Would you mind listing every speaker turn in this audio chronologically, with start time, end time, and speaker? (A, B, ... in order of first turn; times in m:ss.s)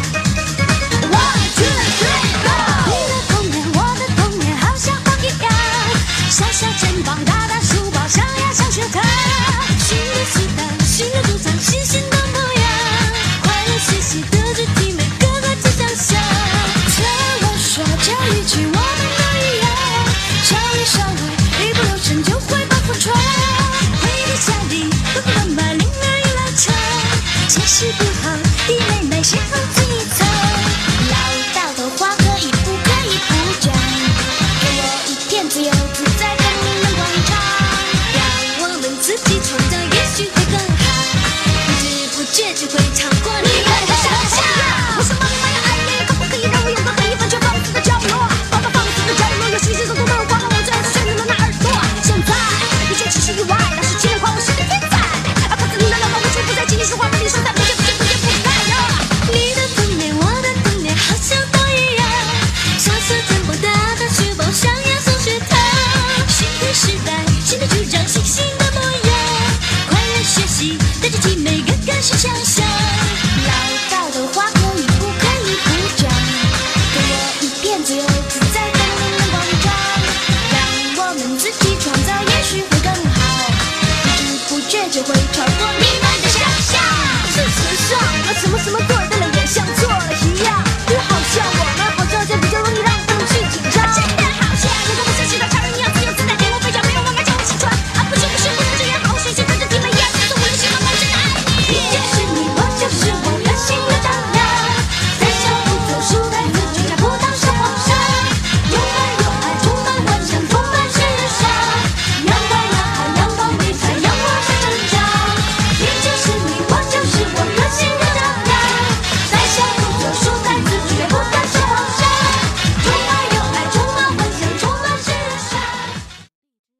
0:01.0-2:05.8 A